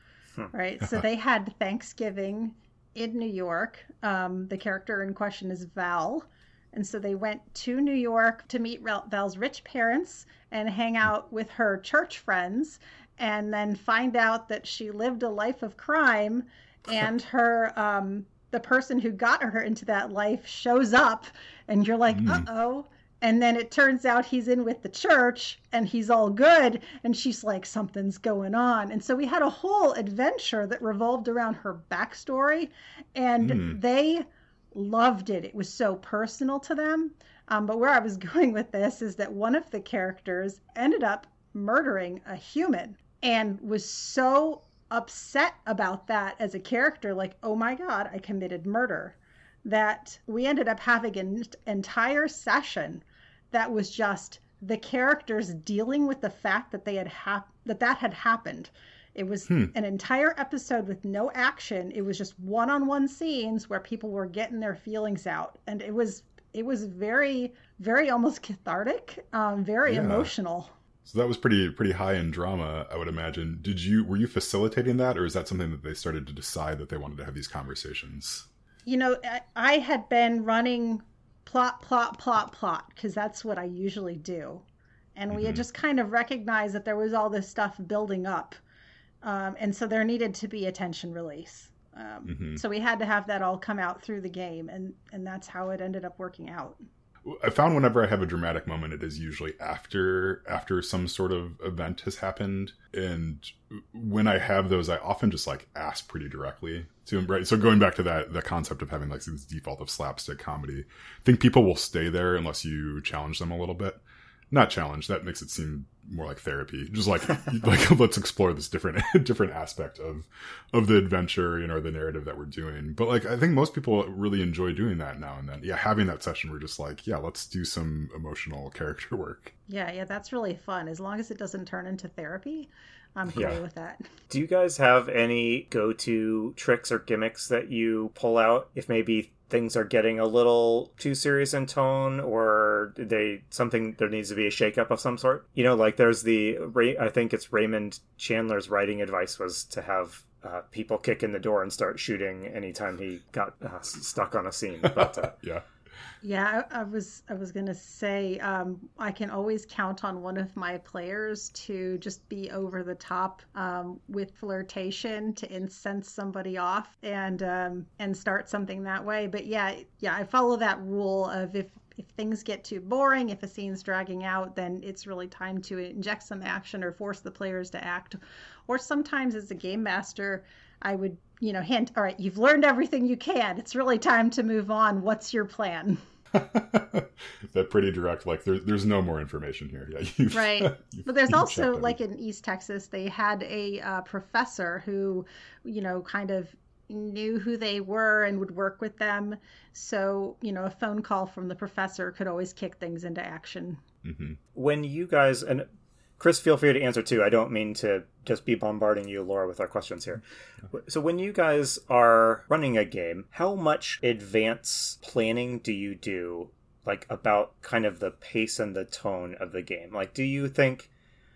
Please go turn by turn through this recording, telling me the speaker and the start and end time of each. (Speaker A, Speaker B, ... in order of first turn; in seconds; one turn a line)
Speaker A: 0.5-70.7
Speaker B: 22.1-22.4
Speaker B: 33.4-33.8
Speaker B: 69.8-70.3
Speaker B: 71.0-78.5
Speaker A: 78.8-84.6
Speaker A: 85.2-88.6
Speaker B: 85.3-85.6
Speaker A: 89.2-96.8
Speaker B: 92.2-92.6
Speaker B: 97.2-129.5
Speaker A: 129.7-134.1
Speaker B: 133.3-133.6
Speaker C: 134.3-155.3
Speaker B: 154.8-155.6
Speaker A: 156.2-186.0
Speaker B: 186.3-192.0
Speaker A: 190.3-203.8
Speaker B: 204.0-204.4
Speaker C: 204.5-205.7
Speaker C: 206.2-220.9